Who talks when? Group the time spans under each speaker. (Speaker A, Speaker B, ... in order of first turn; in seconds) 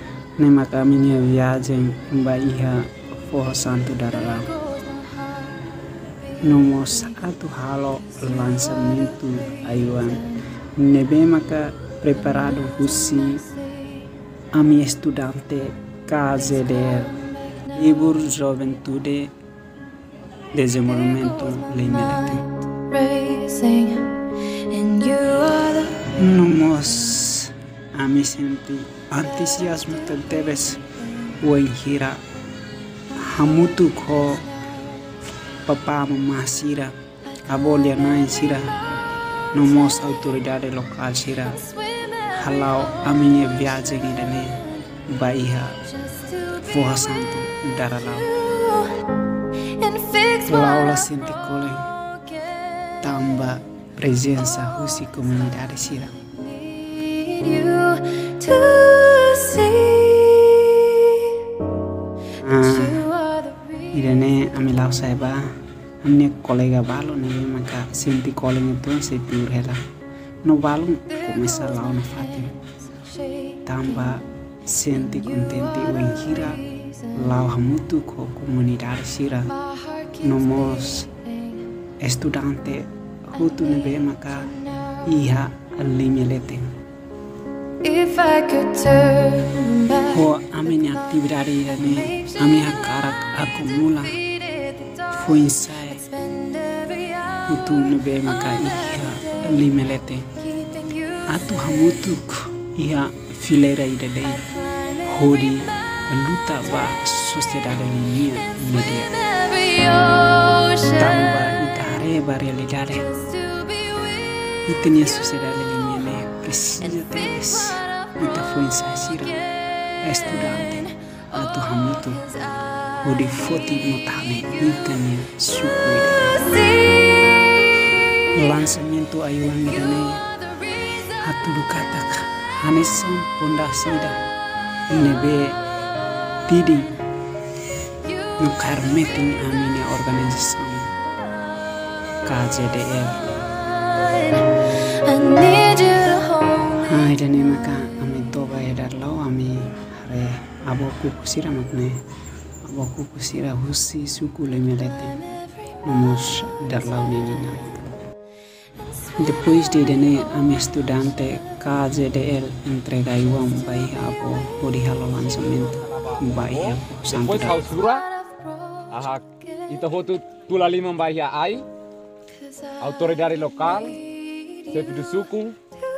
Speaker A: 0.4-4.5, 6.4-13.4, 14.5-19.3, 20.5-22.5, 26.1-32.2, 33.1-34.5, 35.6-36.9, 37.5-38.8, 39.5-41.7, 42.3-45.9, 46.6-48.5, 50.4-51.9, 53.0-56.2, 62.4-63.1, 63.9-69.8, 70.4-72.5, 73.7-79.6, 80.2-81.1, 82.0-86.7, 90.1-94.2, 95.1-96.1, 97.5-100.3, 101.3-109.4, 110.9-113.1, 114.6-119.4, 120.0-122.3, 123.0-126.7, 128.3-130.3, 131.1-134.2, 134.9-135.6, 136.5-137.0, 138.4-140.9, 142.2-143.3, 146.7-152.0, 152.7-155.2, 155.8-157.7, 159.2-167.7
Speaker B: 22.8-26.0, 48.6-49.0, 49.8-50.5, 56.7-61.4, 63.3-63.8, 79.7-80.2, 87.8-90.1, 94.5-94.9, 96.3-97.4, 109.4-110.9, 113.4-114.5, 126.9-127.3, 144.9-146.7, 168.2-168.7, 174.2-174.5
Speaker C: 165.8-168.1, 168.9-171.7, 172.8-174.1, 174.6-175.6